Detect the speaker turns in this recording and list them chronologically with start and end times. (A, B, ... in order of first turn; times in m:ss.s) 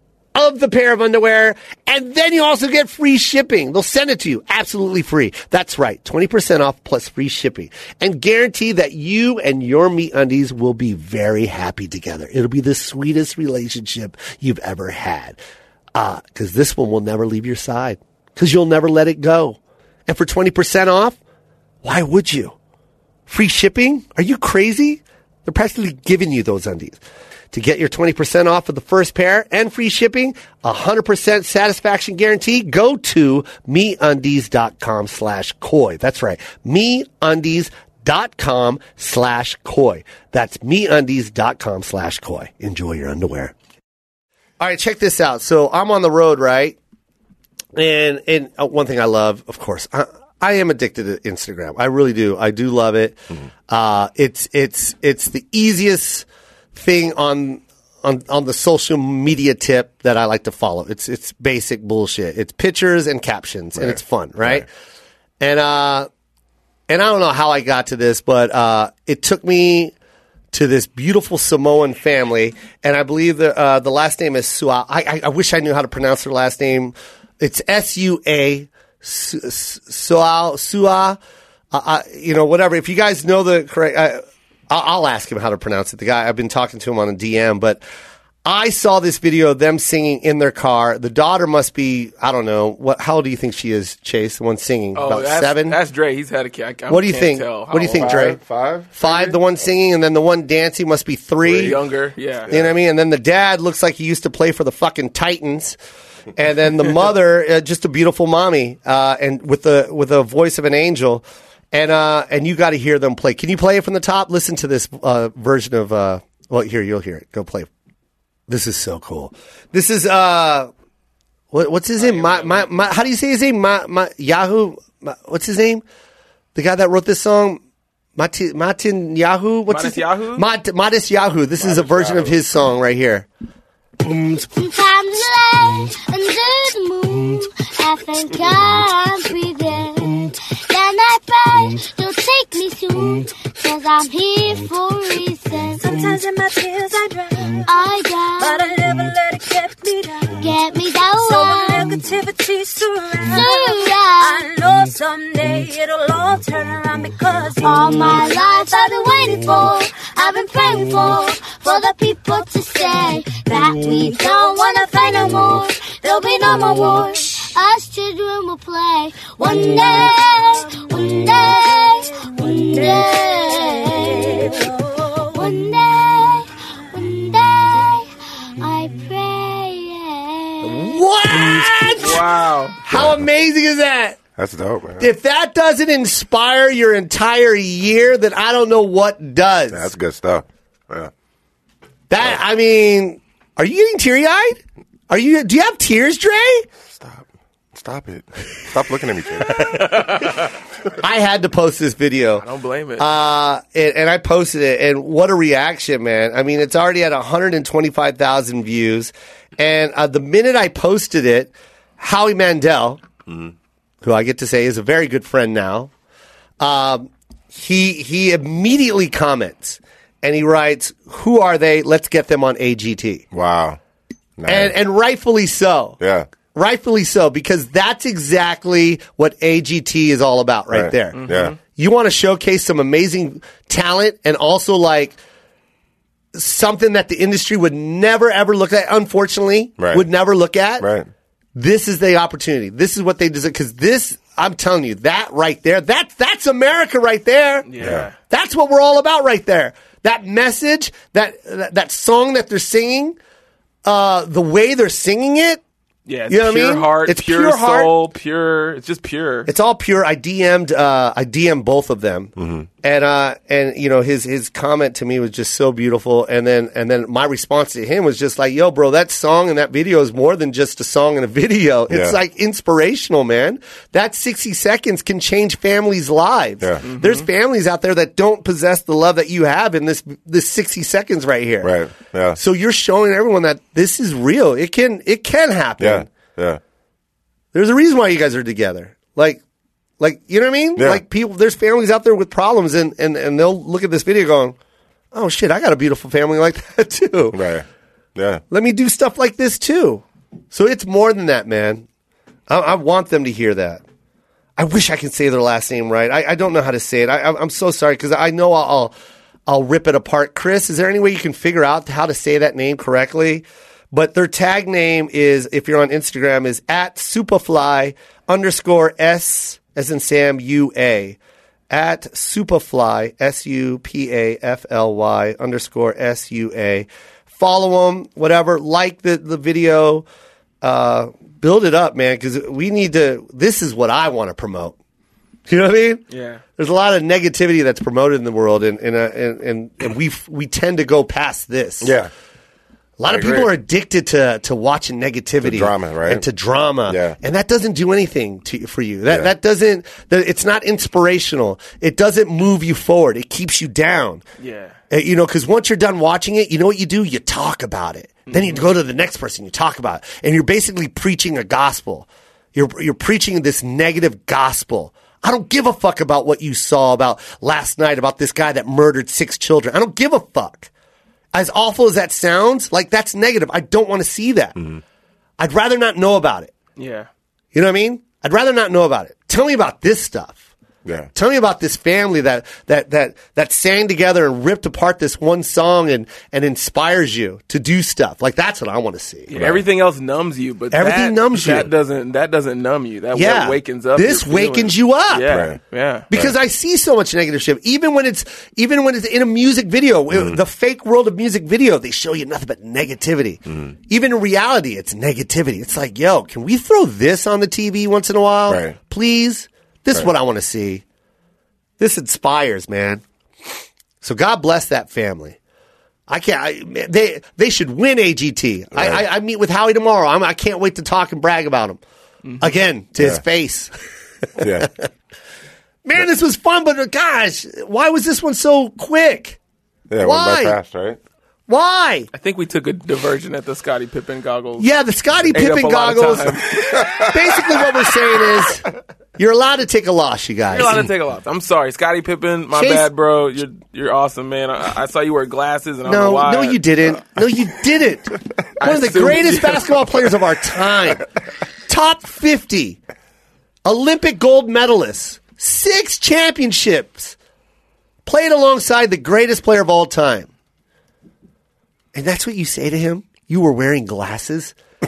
0:00.3-0:15.4 A
0:15.9-0:21.2 A
0:21.8-0:22.6 A
0:23.3-0:27.0 A
0:27.5-0:43.5 A
0:44.6-0:46.8 A
0:47.7-1:04.7 A
1:03.8-1:04.6 B
1:05.4-1:06.1 A
1:06.9-1:09.9 A
1:10.5-1:21.2 A
1:21.7-1:27.8 A
1:28.4-1:35.8 A
1:34.9-1:38.3 C
1:36.9-1:38.4 A
1:37.8-1:39.3 B
1:38.9-1:41.8 A
1:41.4-1:41.7 B
1:41.5-1:42.5 C
1:42.5-1:45.8 A
1:46.3-1:57.7 A
1:58.5-2:00.7 A
2:01.5-2:05.8 A
2:02.0-2:02.7 C
2:06.5-2:07.6 A
2:08.2-2:13.3 A
2:09.7-2:10.4 C
2:11.6-2:12.2 B
2:14.3-2:25.8 D
2:25.8-2:27.6 E
2:27.6-2:28.7 D
2:28.4-2:30.4 E
2:30.4-2:31.9 D
2:31.2-2:38.0 E
2:33.2-2:34.4 D
2:37.6-2:54.3 D
2:44.0-2:45.3 E
2:49.6-2:55.5 E
2:55.3-3:01.0 D
3:00.6-3:04.2 A
3:02.0-3:02.8 C
3:02.9-3:03.2 B
3:04.4-3:05.1 B
3:05.0-3:09.9 A
3:09.7-3:11.1 B
3:12.1-3:16.7 A
3:16.9-3:20.1 B
3:21.0-3:22.4 A
3:22.4-3:23.1 C
3:23.0-3:33.0 A
3:33.3-3:33.5 B
3:34.0-3:35.9 A
3:36.6-3:43.2 A
3:43.3-3:43.8 B
3:44.4-3:44.7 B
3:44.5-3:46.0 A
3:46.0-3:46.3 B
3:46.5-3:55.2 A
3:50.7-3:51.6 B
3:51.1-3:51.6 C
3:56.3-4:00.9 A
3:59.8-4:00.0 B
4:00.8-4:01.1 B
4:01.5-4:13.2 A
4:07.6-4:08.1 C
4:07.8-4:08.1 B
4:13.8-4:15.6 A
4:16.1-4:19.5 C
4:16.3-4:18.0 A
4:19.4-4:41.7 A
4:22.4-4:22.7 B
4:31.9-4:32.2 B
4:36.8-4:37.2 C
4:41.6-4:42.4 B
4:42.4-4:46.1 A
4:45.8-4:46.6 B
4:47.5-4:49.4 A
4:50.0-4:54.6 A
4:55.1-4:57.4 A
4:57.3-4:58.4 B
4:58.5-5:01.8 A
5:02.5-5:03.8 A
5:04.6-5:08.9 A
5:09.5-5:21.2 A
5:21.7-5:30.0 A
5:30.6-5:34.8 A
5:35.5-5:36.0 A
5:36.1-5:36.4 C
5:36.6-5:41.9 A
5:41.8-5:42.1 B
5:43.0-5:54.2 A
5:43.0-5:43.5 B
5:45.4-5:46.2 B
5:46.9-5:47.2 B
5:54.4-5:54.7 C
5:54.9-6:10.7 A
5:58.3-5:58.7 C
6:11.3-6:14.6 A
6:15.4-6:16.5 A
6:16.8-6:17.1 C
6:17.5-6:20.4 A
6:20.8-6:21.1 B
6:21.1-6:29.5 A
6:29.3-6:36.1 C
6:30.7-6:31.7 A
6:33.1-6:35.5 A
6:35.3-6:35.6 B
6:36.1-6:50.8 A
6:48.5-6:48.8 B
6:51.8-6:53.0 A
6:54.0-6:55.4 A
6:56.1-7:01.8 A
6:58.8-6:59.0 B
7:02.4-7:03.7 A
7:04.4-7:04.7 B
7:04.4-7:04.7 A
7:05.8-7:09.4 A
7:09.9-7:11.0 B
7:10.0-7:10.6 A
7:11.5-7:12.1 A
7:12.1-7:14.7 C
7:14.6-7:20.9 A
7:15.3-7:17.1 C
7:16.7-7:17.1 B
7:20.5-7:26.7 C
7:22.5-7:22.9 A
7:25.8-7:31.1 A
7:28.6-7:29.8 C
7:31.7-7:32.8 A
7:33.6-7:37.2 A
7:38.0-7:40.3 A
7:41.9-7:44.5 A